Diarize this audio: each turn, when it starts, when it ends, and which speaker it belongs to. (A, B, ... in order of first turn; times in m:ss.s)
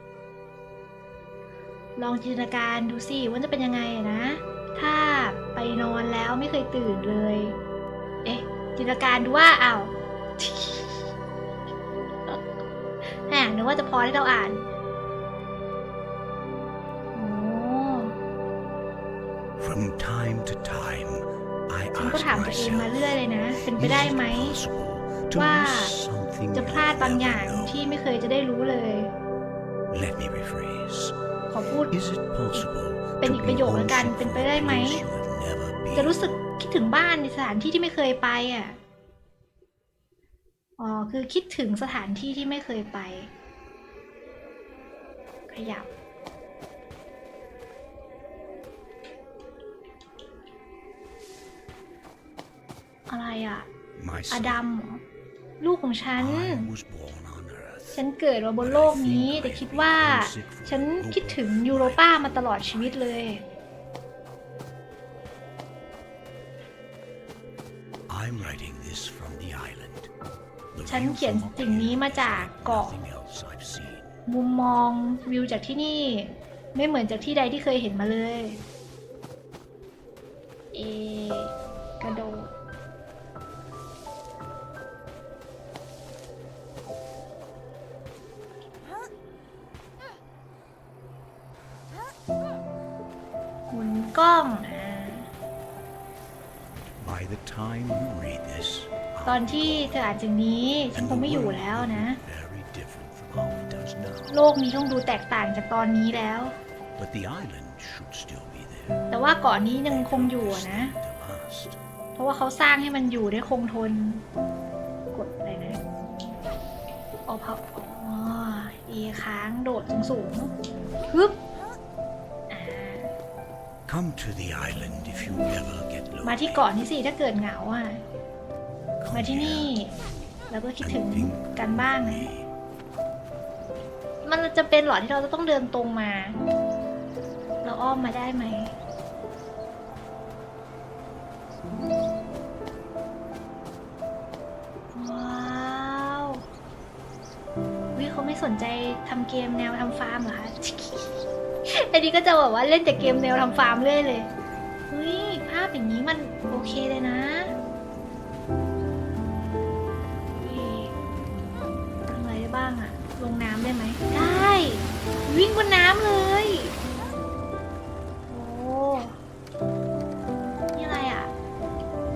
0:02.0-0:07.6 A
0:08.2-0:11.1 A
0:13.0-0:14.7 A
0:17.1-0:18.1 A
0:19.6-0:27.8 B
0:22.0-0:24.6 A
0:25.4-0:26.0 A
0:26.5-0:29.1 A
0:29.9-0:31.1 B
0:31.5-0:31.9 A
0:31.9-0:36.2 B
0:33.2-0:35.0 A
0:35.9-0:38.8 A
0:40.8-0:43.3 A
0:45.5-0:45.9 A
0:53.1-0:53.7 A
0:54.0-0:54.6 B
0:54.3-0:55.0 A
0:55.6-0:56.7 A
0:56.2-0:58.0 B
0:57.9-1:03.4 A
0:58.6-1:03.2 B
1:08.1-1:10.1 B
1:10.7-1:14.1 B
1:10.9-1:13.0 A
1:14.2-1:18.6 A
1:20.7-1:22.5 A
1:33.7-1:35.3 A
1:37.0-1:40.0 B
1:39.2-1:42.2 A
1:40.9-1:44.4 B
1:44.3-1:46.6 A
1:47.0-1:49.0 B
1:49.1-1:51.0 A
1:49.8-1:51.8 B
1:52.2-1:54.2 A
1:55.1-1:55.8 A
1:57.3-2:00.5 A
2:01.1-2:01.4 A
2:02.5-2:03.1 A
2:03.9-2:06.6 B
2:06.2-2:08.0 A
2:09.0-2:09.8 B
2:09.1-2:09.9 A
2:10.5-2:12.3 A
2:10.8-2:12.5 B
2:14.2-2:16.4 A
2:17.6-2:18.7 A
2:24.9-2:26.4 A
2:27.9-2:34.3 A
2:34.9-2:37.5 A
2:40.4-2:40.9 A
2:42.1-2:46.7 A
2:48.3-2:49.2 A
2:50.7-2:51.3 A